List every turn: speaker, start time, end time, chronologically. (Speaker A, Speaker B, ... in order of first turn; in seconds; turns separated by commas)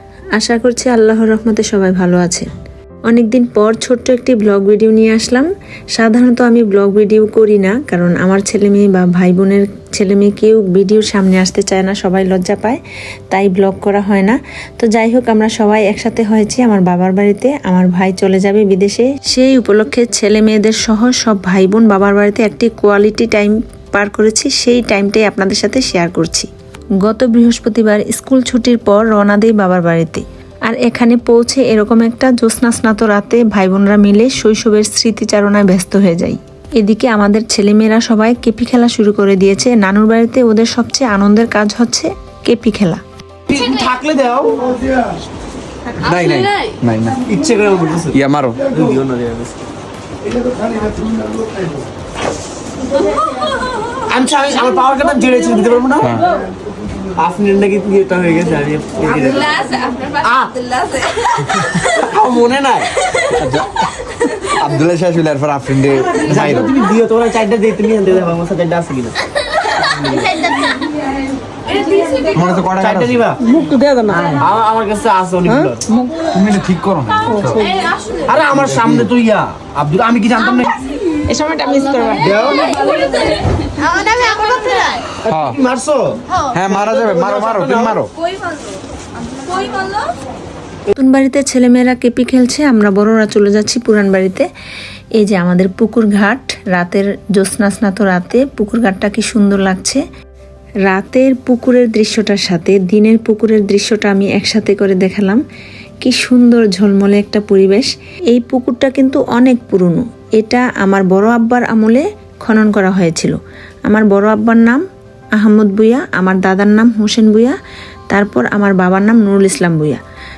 Speaker A: 0.4-2.5, Speaker A: 3.1-12.8, Speaker A: 13.3-26.5, Speaker A: 27.0-43.0, Speaker B: 43.5-44.8, Speaker C: 46.0-47.2, Speaker B: 47.2-49.5, Speaker C: 48.1-48.6, Speaker B: 50.8-51.7, Speaker B: 54.0-56.3, Speaker B: 57.1-63.5, Speaker D: 59.8-60.2, Speaker C: 63.4-63.8, Speaker C: 64.5-66.7, Speaker B: 66.1-70.6, Speaker C: 72.3-73.2, Speaker B: 72.8-75.8, Speaker D: 73.5-74.3, Speaker D: 75.9-76.2, Speaker C: 76.3-77.6, Speaker B: 78.2-80.8, Speaker C: 78.6-79.1, Speaker D: 81.2-82.4, Speaker B: 82.2-83.0, Speaker D: 83.8-84.7, Speaker B: 84.0-84.6, Speaker B: 85.2-88.0, Speaker C: 85.2-85.6, Speaker C: 86.5-88.1, Speaker D: 89.4-90.1, Speaker A: 90.9-94.5, Speaker A: 95.2-100.0, Speaker A: 100.9-105.4, Speaker A: 106.0-114.8, Speaker A: 115.4-117.5, Speaker A: 118.1-120.0